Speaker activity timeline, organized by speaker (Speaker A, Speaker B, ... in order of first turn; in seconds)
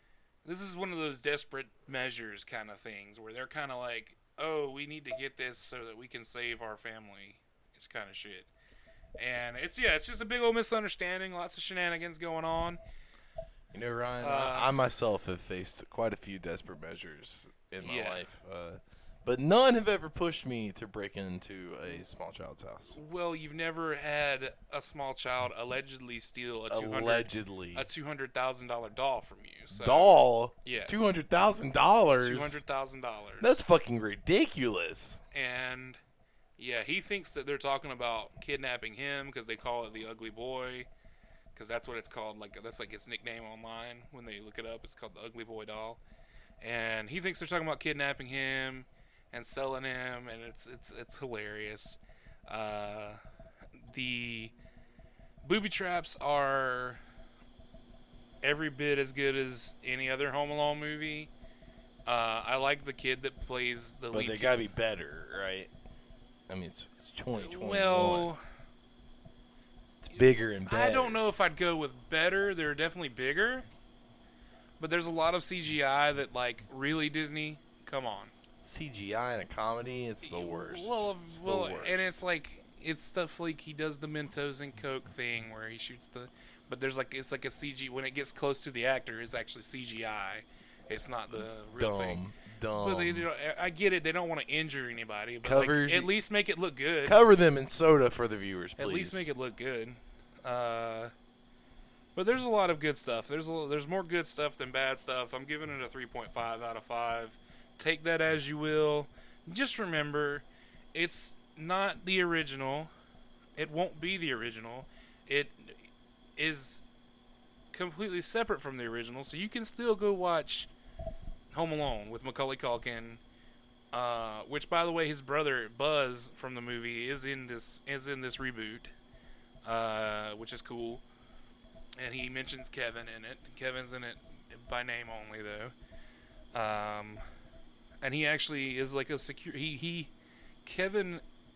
Speaker A: 0.4-8.5, 9.2-12.8, 14.2-14.7, 17.8-18.3, 22.9-31.2, 32.2-33.6, 35.3-36.0, 36.6-40.9, 41.5-46.0, 46.6-53.2, 53.8-54.5, 55.4-57.0, 58.4-61.3, 62.1-64.6, 67.3-68.4, 70.6-73.7, 74.8-78.3, 80.2-97.2, 98.8-101.1, 102.1-112.9, 113.6-115.8, 116.4-116.8, 117.7-120.7, 121.5-123.2, 123.9-128.9, 129.6-131.0, 132.0-135.7, 136.5-137.2, 138.0-140.1, 140.6-141.2
Speaker B: 13.7-23.0, 26.7-27.9, 29.7-32.6, 33.4-35.2, 64.1-65.7, 66.5-68.3, 70.0-71.2, 78.6-82.2, 91.3-93.3, 95.4-96.1, 97.0-99.3